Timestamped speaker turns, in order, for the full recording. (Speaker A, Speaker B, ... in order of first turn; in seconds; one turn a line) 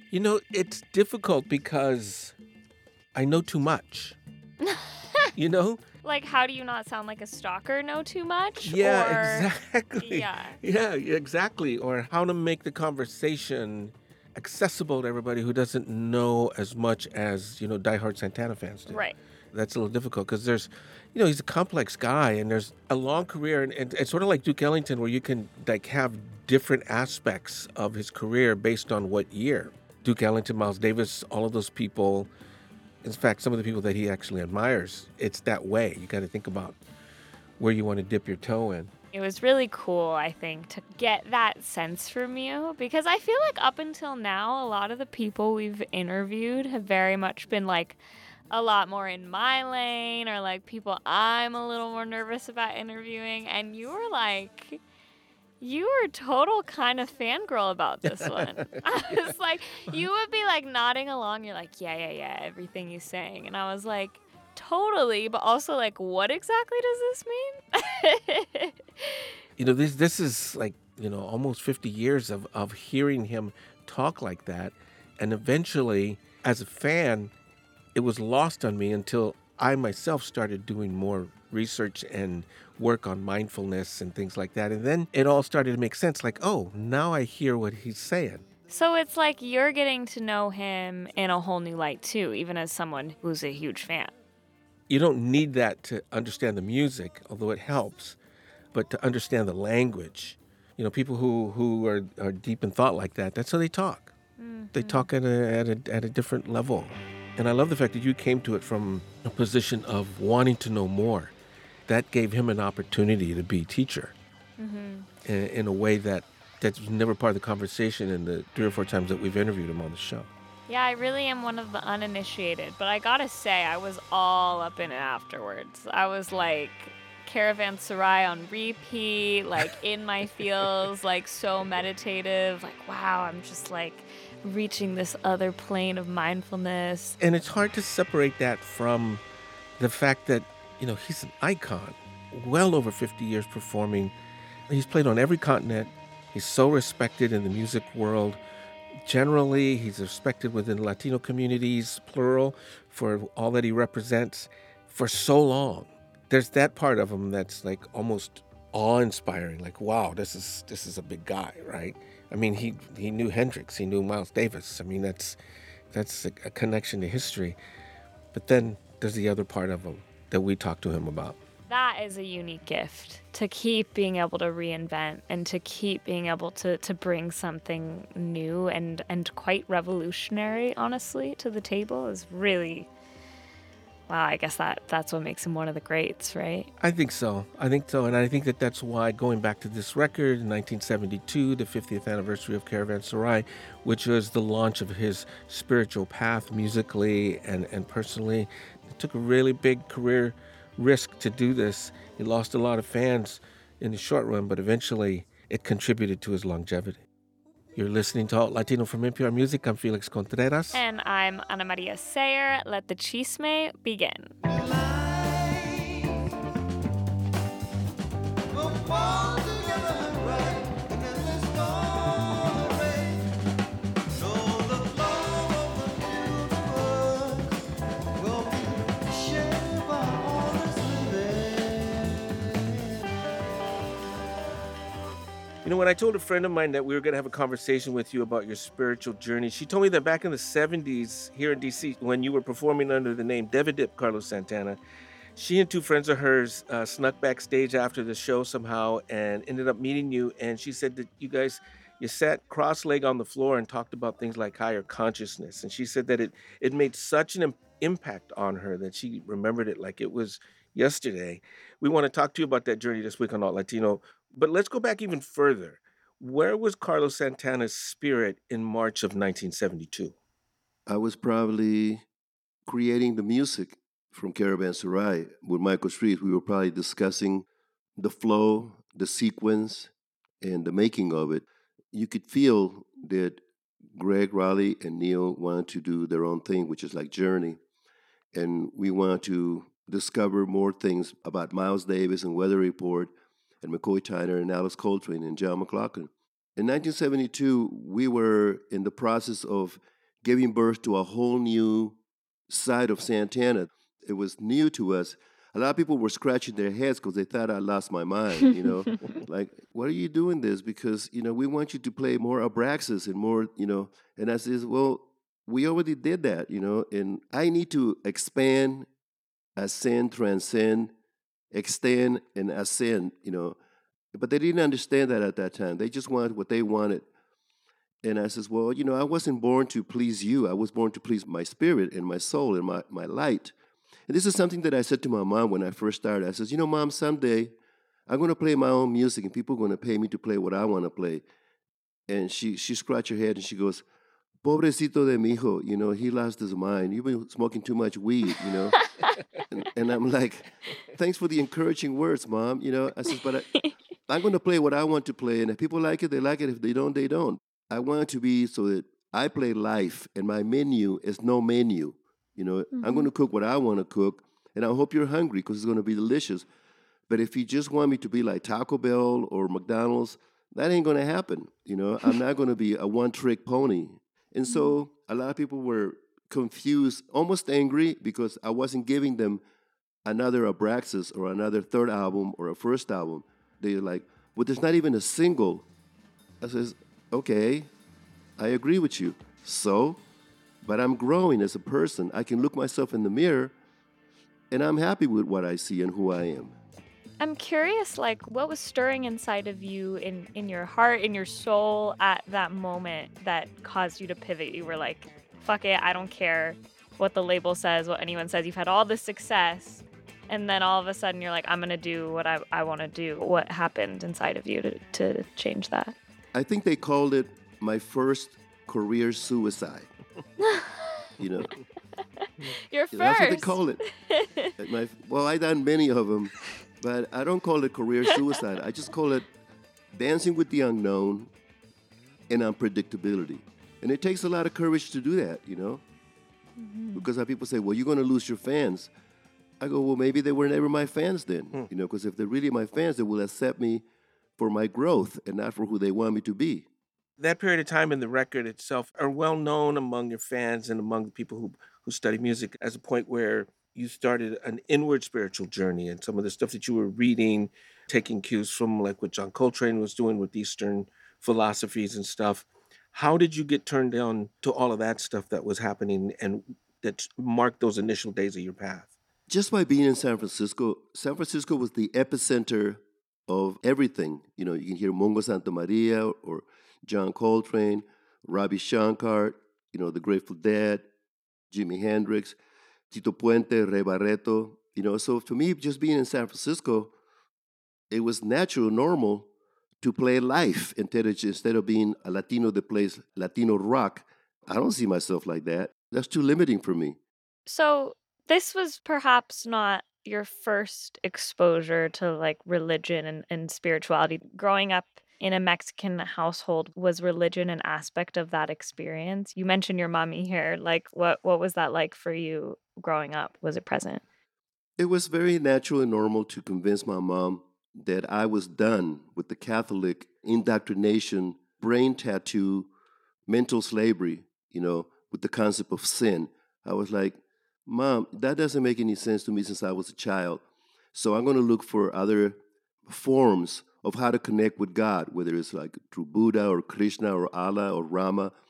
Speaker A: 0.1-2.3
Speaker A: 3.1-4.2
Speaker B: 4.6-5.3
Speaker A: 5.3-5.8
Speaker B: 6.0-10.6
Speaker A: 8.6-19.0
Speaker B: 18.9-19.1
Speaker A: 19.5-32.3
Speaker A: 33.0-36.8
Speaker A: 37.6-38.9
Speaker B: 39.1-48.0
Speaker B: 48.5-54.8
Speaker B: 55.6-69.3
Speaker A: 58.0-59.2
Speaker A: 69.6-77.3
Speaker A: 77.9-88.4
Speaker B: 88.7-94.1
Speaker A: 94.9-98.2
Speaker A: 98.7-104.1
Speaker B: 104.4-105.1
Speaker A: 104.7-111.3
Speaker A: 111.9-114.1
Speaker B: 114.6-115.1
Speaker A: 115.2-120.3
Speaker B: 120.7-137.2
Speaker A: 137.2-139.2
Speaker A: 139.8-144.1
Speaker A: 144.7-148.4
Speaker A: 149.1-165.4
Speaker A: 165.9-167.6
Speaker A: 168.3-171.4
Speaker B: 171.7-182.9
Speaker B: 184.1-186.7
Speaker A: 186.8-207.0
Speaker A: 207.7-210.8
Speaker B: 210.7-214.3
Speaker C: 214.4-216.2
Speaker C: 218.5-223.3
Speaker C: 224.1-227.6
Speaker C: 228.2-232.6
Speaker A: 235.6-244.8
Speaker A: 245.3-270.1
Speaker C: 270.9-272.0
Speaker C: 272.7-277.4
Speaker C: 278.0-283.4
Speaker C: 283.9-287.6
Speaker C: 288.3-302.0
Speaker C: 302.5-318.9
Speaker C: 319.6-320.9
Speaker C: 321.5-323.6
Speaker C: 324.1-327.1
Speaker C: 328.0-333.5
Speaker C: 334.1-337.5
Speaker C: 338.1-341.2
Speaker C: 342.1-343.8
Speaker C: 344.4-348.8
Speaker C: 349.5-353.5
Speaker C: 354.1-366.4
Speaker B: 362.8-363.1
Speaker C: 367.1-379.4
Speaker B: 374.5-374.7
Speaker C: 380.0-385.6
Speaker C: 386.4-387.7
Speaker C: 388.4-390.0
Speaker C: 390.6-393.5
Speaker C: 394.5-396.6
Speaker B: 397.2-415.9
Speaker C: 416.3-419.9
Speaker B: 420.5-421.0
Speaker C: 421.2-421.5
Speaker B: 422.2-424.5
Speaker C: 422.9-423.8
Speaker C: 424.6-429.3
Speaker C: 429.9-431.3
Speaker C: 432.3-435.8
Speaker B: 436.6-437.1
Speaker C: 436.9-438.9
Speaker C: 439.6-443.8
Speaker C: 444.4-446.7
Speaker A: 447.2-468.9
Speaker C: 469.3-480.9
Speaker C: 481.5-482.4
Speaker C: 482.9-486.9
Speaker C: 487.9-489.3
Speaker C: 489.8-497.0
Speaker B: 497.5-514.0
Speaker C: 514.8-522.7
Speaker C: 523.3-530.4
Speaker C: 530.9-538.3